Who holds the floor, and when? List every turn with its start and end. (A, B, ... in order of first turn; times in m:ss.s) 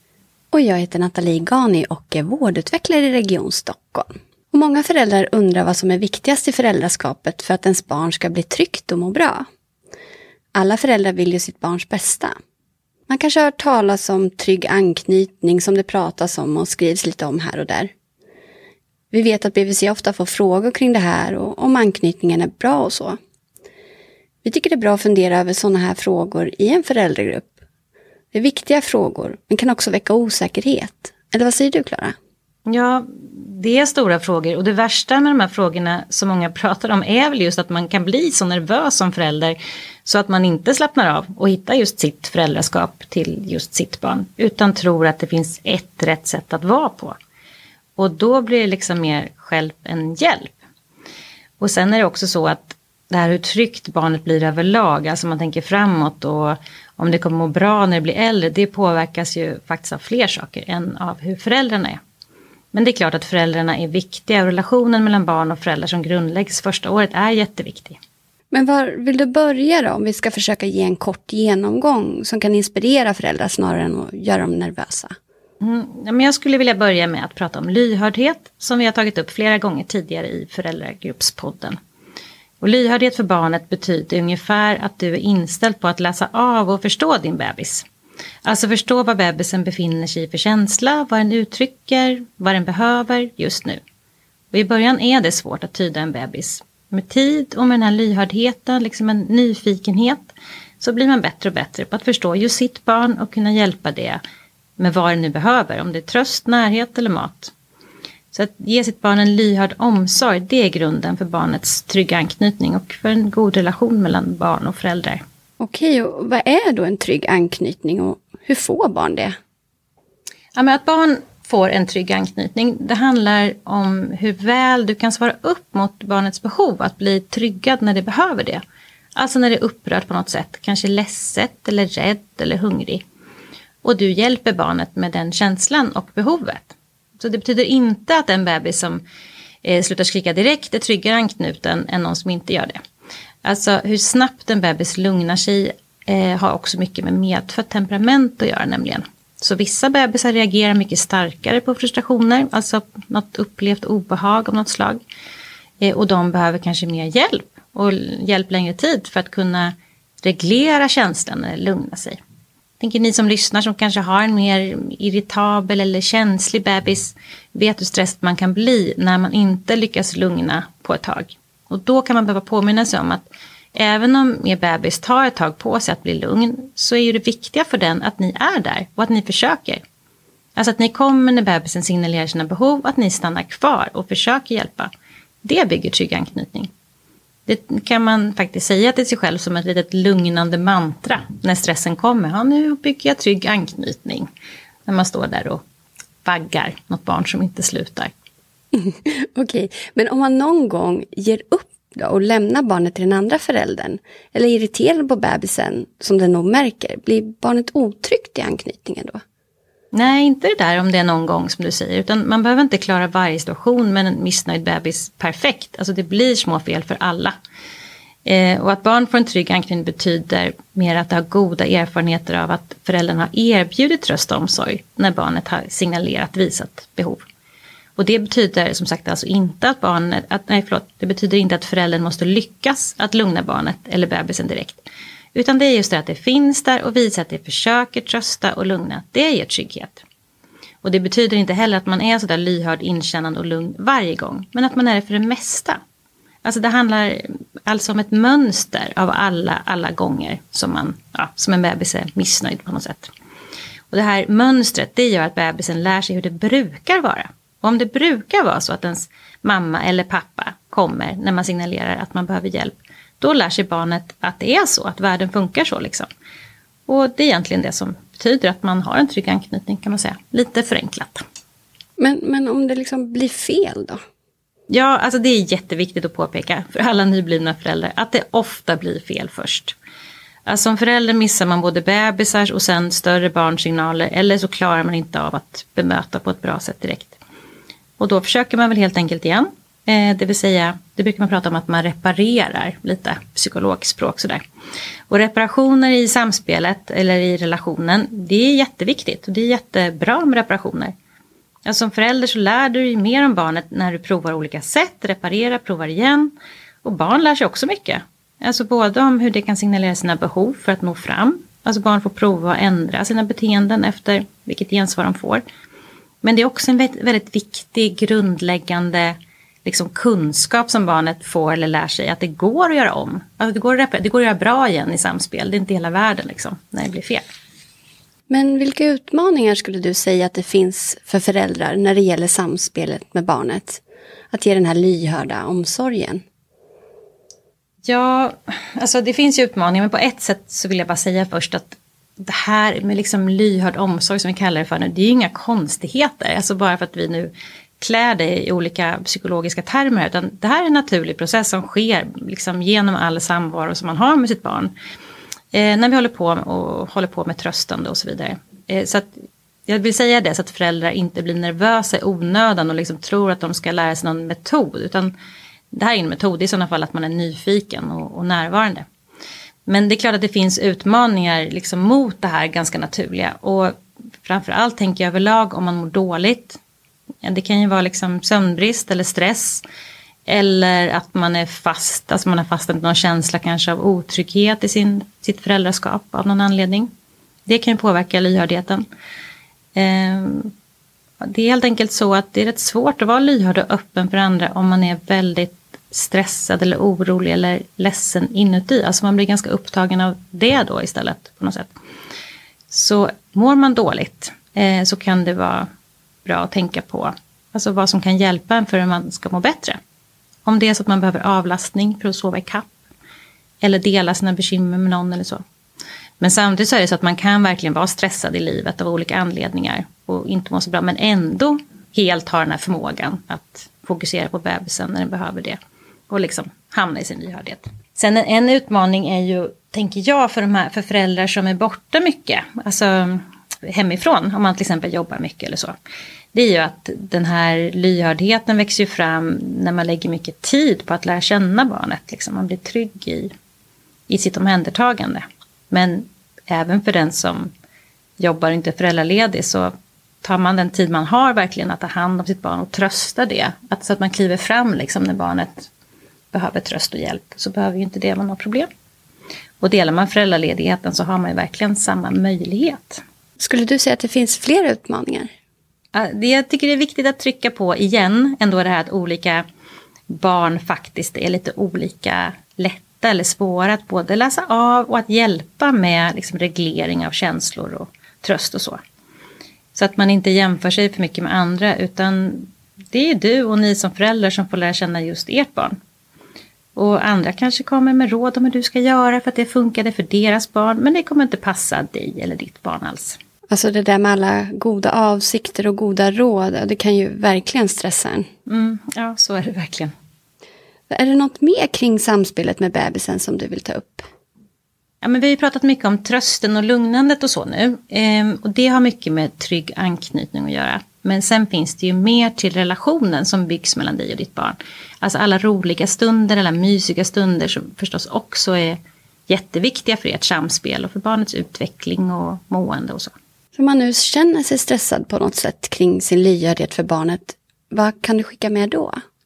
0:00.5-0:09.4 A
0:10.5-0:12.3 A
0:13.1-0:17.9 A
0:19.1-0:23.2 A
0:24.4-0:27.5 A
0:28.3-0:32.1 A
0:32.7-0:47.1 B
0:48.0-0:50.6 B
0:51.6-1:02.0 B
1:02.7-1:08.0 B
1:08.5-1:15.1 A
1:15.6-1:21.8 B
1:22.6-1:27.8 B
1:28.4-1:33.8 B
1:34.5-1:44.2 B
1:44.8-1:47.5 B
1:48.3-1:55.2 B
1:55.6-1:59.3 A
2:00.5-2:08.6 B
2:09.2-2:13.0 B
2:13.8-2:19.0 B
2:19.6-2:22.8 B
2:23.4-2:35.0 B
2:35.8-2:42.2 B
2:42.8-2:59.8 B
3:00.6-3:04.9 B
3:05.4-3:06.7 B
3:07.4-3:14.3 B
3:14.8-3:15.6 B
3:16.2-3:18.1 B
3:18.7-3:29.2 A
3:29.9-3:37.3 B
3:38.2-3:47.2 B
3:48.0-3:54.8 B
3:55.3-4:00.0 B
4:00.8-4:05.8 B
4:06.4-4:13.1 B
4:13.9-4:26.1 B
4:26.9-4:31.2 B
4:32.0-4:34.0 A
4:34.7-4:39.8 B
4:40.4-4:47.2 B
4:48.0-4:54.4 B
4:55.1-5:00.9 B
5:01.6-5:06.3 B
5:06.8-5:15.4 B
5:16.2-5:27.2 B
5:28.3-5:36.2 A
5:37.8-5:54.7 B
5:55.5-5:59.1 B
5:59.7-6:05.1 B
6:05.7-6:08.8 B
6:09.6-6:16.6 B
6:17.2-6:19.6 B
6:20.3-6:26.9 B
6:27.5-6:28.8 B
6:29.7-6:30.5 B
6:31.2-6:41.7 B
6:42.7-6:45.7 B
6:46.2-6:49.8 B
6:50.4-6:52.7 B
6:53.6-6:55.4 B
6:56.2-7:05.6 B
7:06.1-7:15.7 B
7:16.3-7:23.3 B
7:24.1-7:27.5 B
7:28.2-7:29.7 B
7:30.2-7:35.7 B
7:36.3-7:38.7 B
7:39.6-7:43.0 B
7:43.4-7:45.3 A
7:45.9-7:49.4 B
7:50.1-7:58.8 B
7:59.7-8:05.8 B
8:06.8-8:13.2 B
8:13.5-8:18.2 A
8:18.5-8:19.9 B
8:20.9-8:24.0 A
8:25.0-8:43.1 B
8:43.5-8:49.0 A